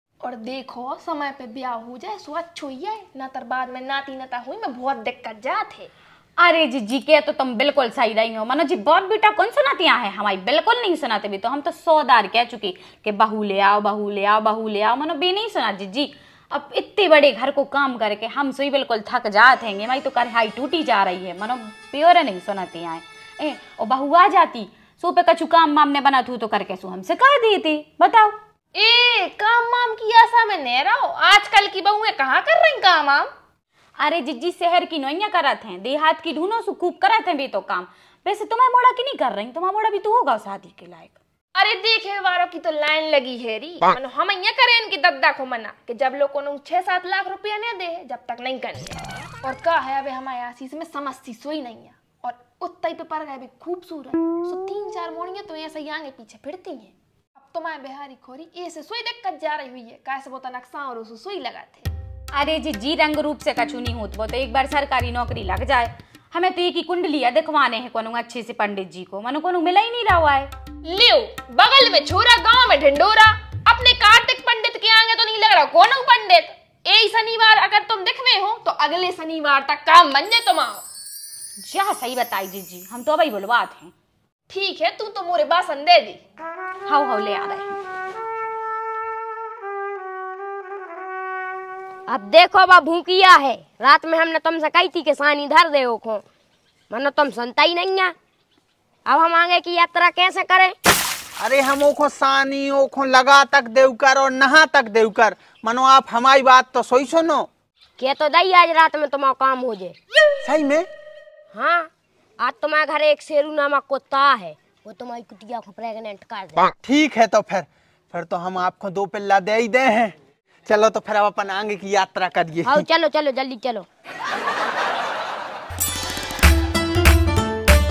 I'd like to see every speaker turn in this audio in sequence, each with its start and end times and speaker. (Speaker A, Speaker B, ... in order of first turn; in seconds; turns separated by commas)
Speaker A: 0.2-5.9, Speaker B: 6.4-28.4, Speaker A: 28.7-33.3, Speaker B: 34.0-41.1, Speaker A: 41.5-61.9, Speaker B: 62.3-70.5, Speaker A: 70.8-80.8, Speaker B: 81.6-83.9, Speaker A: 84.5-86.2, Speaker B: 86.8-87.8, Speaker C: 92.1-96.2, Speaker C: 96.9-98.1, Speaker C: 99.0-100.7, Speaker D: 101.4-107.5, Speaker C: 108.0-109.9, Speaker D: 110.4-110.9, Speaker C: 111.5-116.7, Speaker D: 116.8-120.1, Speaker D: 120.7-122.9, Speaker C: 122.7-123.8